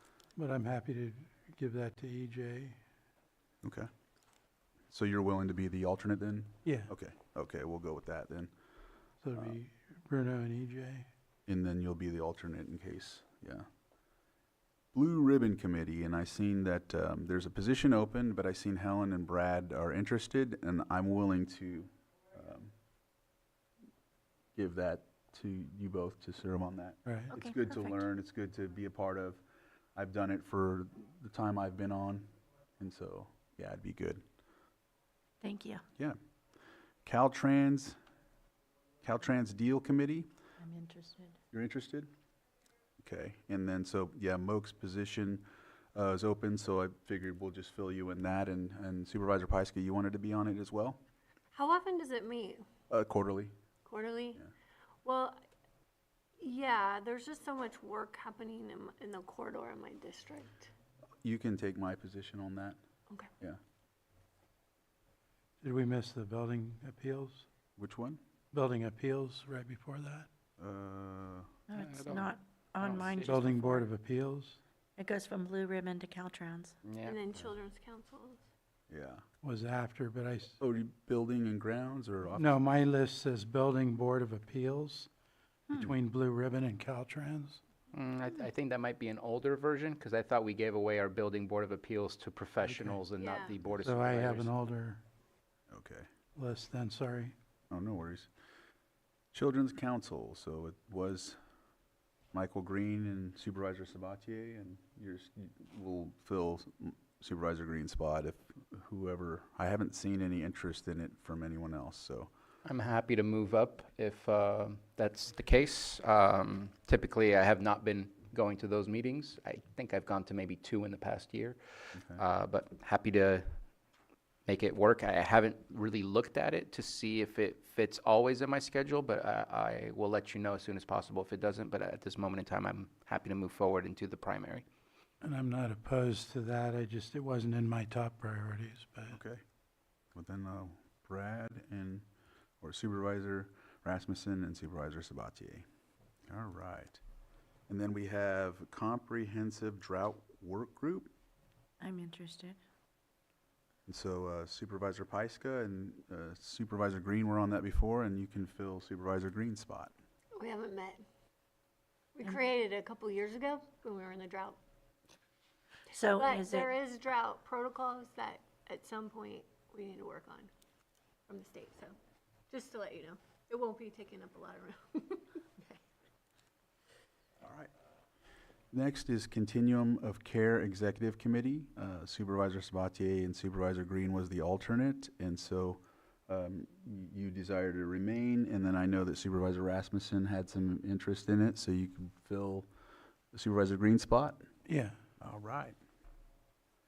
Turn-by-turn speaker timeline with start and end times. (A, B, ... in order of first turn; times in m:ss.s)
0:00.4-0:02.8 A
0:03.6-0:03.9 B
0:04.9-0:08.5 B
0:06.6-0:06.9 A
0:09.2-0:11.1 A
0:11.5-0:13.7 B
0:14.9-0:22.7 B
0:24.5-0:29.4 B
0:27.0-0:27.3 A
0:27.3-0:28.0 C
0:29.9-0:34.2 B
0:35.4-0:35.8 C
0:37.0-0:38.0 B
0:39.0-0:40.3 B
0:40.6-0:41.4 C
0:41.5-0:42.1 B
0:43.0-0:51.0 B
0:51.5-0:52.6 D
0:52.9-0:53.5 B
0:53.8-0:54.4 D
0:55.0-0:55.4 D
0:56.4-1:00.7 D
1:01.2-1:02.8 B
1:05.6-1:07.4 A
1:07.8-1:08.2 B
1:08.5-1:10.3 A
1:10.6-1:11.5 B
1:11.7-1:13.9 C
1:11.7-1:13.8 E
1:13.2-1:14.6 A
1:15.0-1:16.8 C
1:16.8-1:17.2 E
1:17.0-1:18.4 D
1:18.9-1:19.2 B
1:19.4-1:20.6 A
1:20.6-1:22.6 B
1:22.4-1:25.1 A
1:25.7-1:27.6 A
1:27.9-1:34.5 E
1:32.6-1:33.0 A
1:33.2-1:33.5 D
1:33.8-1:35.0 A
1:35.7-1:36.1 B
1:36.4-1:37.3 A
1:37.7-1:38.3 B
1:39.3-1:41.4 B
1:42.3-1:52.3 B
1:52.6-2:03.5 E
2:02.0-2:02.2 B
2:04.4-2:14.6 E
2:15.2-2:19.2 A
2:19.1-2:19.4 B
2:20.1-2:22.0 B
2:22.6-2:25.6 B
2:26.3-2:27.0 B
2:27.7-2:31.1 B
2:31.8-2:32.6 C
2:33.9-2:39.9 B
2:40.3-2:41.0 D
2:42.1-2:44.6 D
2:45.9-2:46.7 C
2:46.1-2:50.5 D
2:51.3-2:51.9 D
2:52.5-2:55.8 D
2:57.4-2:57.7 B
2:58.7-3:12.7 B
3:13.3-3:14.4 B
3:14.7-3:15.0 A
3:15.2-3:15.8 B